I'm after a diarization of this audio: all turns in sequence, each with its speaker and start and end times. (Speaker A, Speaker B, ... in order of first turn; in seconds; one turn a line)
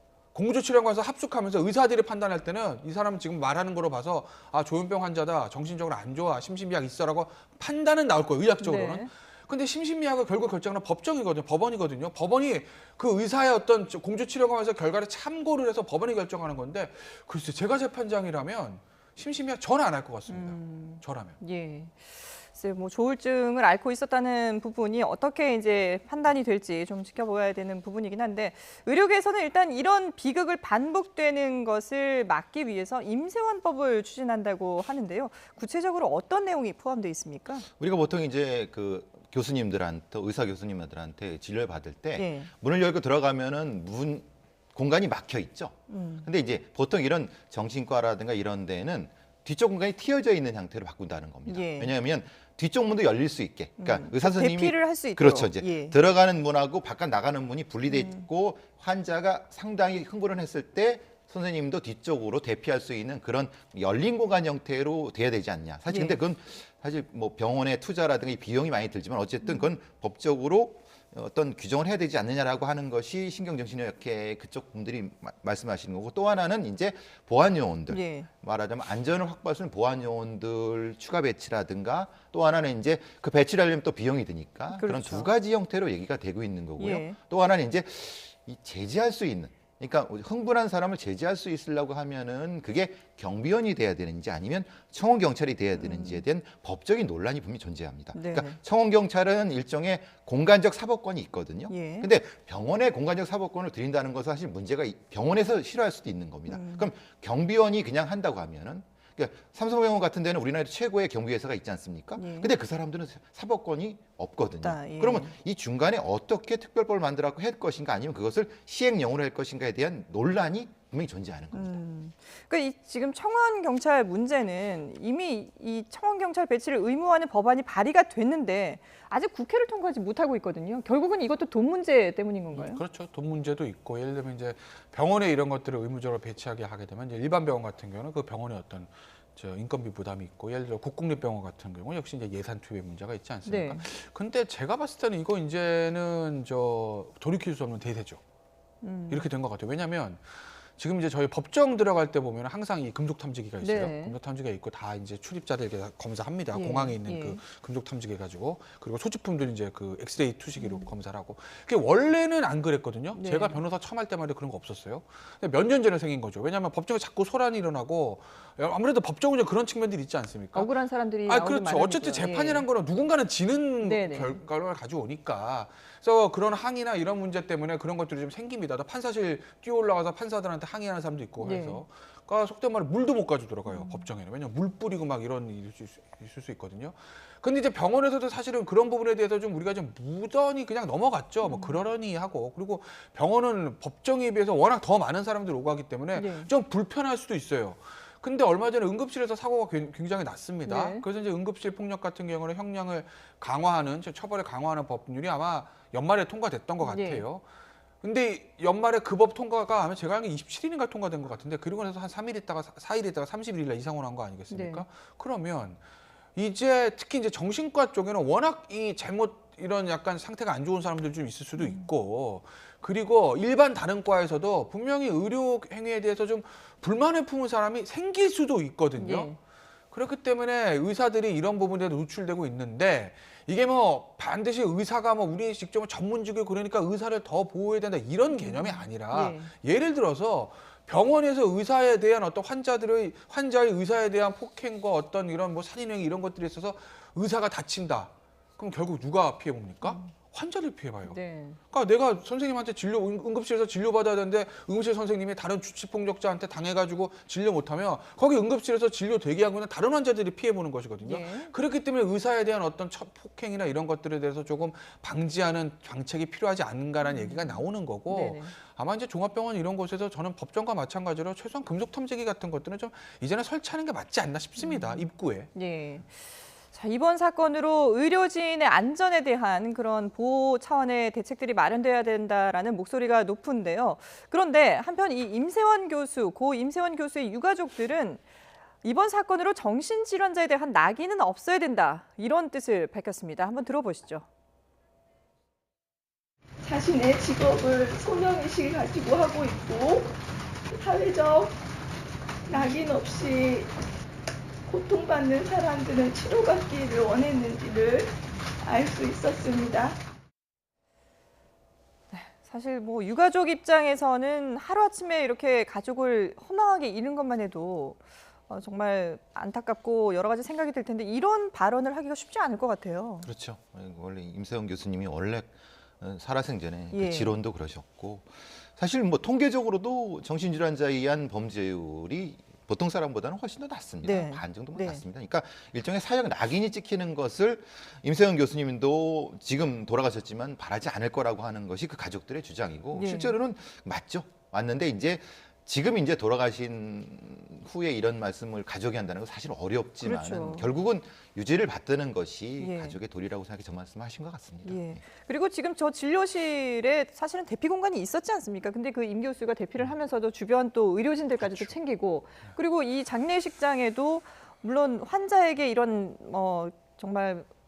Speaker A: 0.3-21.4
Speaker B: 8.6-9.1
Speaker B: 20.3-37.7
Speaker C: 37.8-121.8
Speaker B: 42.1-42.5
Speaker B: 45.9-46.3
Speaker B: 51.5-51.9
Speaker B: 53.8-56.0
Speaker B: 57.9-58.2
Speaker B: 65.9-66.2
Speaker B: 77.9-78.3
Speaker B: 84.7-85.3
Speaker B: 86.8-87.2
Speaker B: 95.8-96.2
Speaker B: 98.1-98.6
Speaker B: 101.7-102.1
Speaker B: 106.5-106.9
Speaker B: 112.2-112.5
Speaker B: 114.6-115.3
Speaker B: 121.5-132.8
Speaker A: 132.5-148.2
Speaker B: 143.4-143.8
Speaker B: 148.8-149.3
Speaker A: 149.1-170.7
Speaker B: 153.6-154.2
Speaker B: 156.5-157.4
Speaker B: 160.6-160.9
Speaker B: 163.1-163.6
Speaker B: 170.5-172.7
Speaker A: 171.2-207.4
Speaker B: 173.8-174.4
Speaker B: 181.4-181.8
Speaker B: 183.7-184.1
Speaker B: 191.4-191.8
Speaker B: 196.1-196.5
Speaker B: 200.7-201.0
Speaker B: 206.8-207.2
Speaker A: 208.0-215.8
Speaker B: 214.5-214.8
Speaker A: 216.3-229.3
Speaker B: 221.6-221.8
Speaker B: 229.0-229.4
Speaker A: 229.9-251.2
Speaker B: 238.3-239.5
Speaker B: 249.8-250.1
Speaker B: 251.1-251.6
Speaker A: 251.7-275.5
Speaker B: 261.0-261.6
Speaker B: 267.0-268.5
Speaker B: 274.6-288.2
Speaker B: 288.8-294.2
Speaker D: 296.6-300.1
Speaker D: 300.7-301.6
Speaker D: 302.5-303.7
Speaker D: 304.7-308.1
Speaker D: 308.6-310.0
Speaker B: 312.1-323.3
Speaker C: 323.2-355.0
Speaker B: 326.9-327.3
Speaker B: 334.0-335.0
Speaker B: 342.9-343.4
Speaker B: 350.0-350.7
Speaker B: 352.6-353.0
Speaker B: 354.6-367.5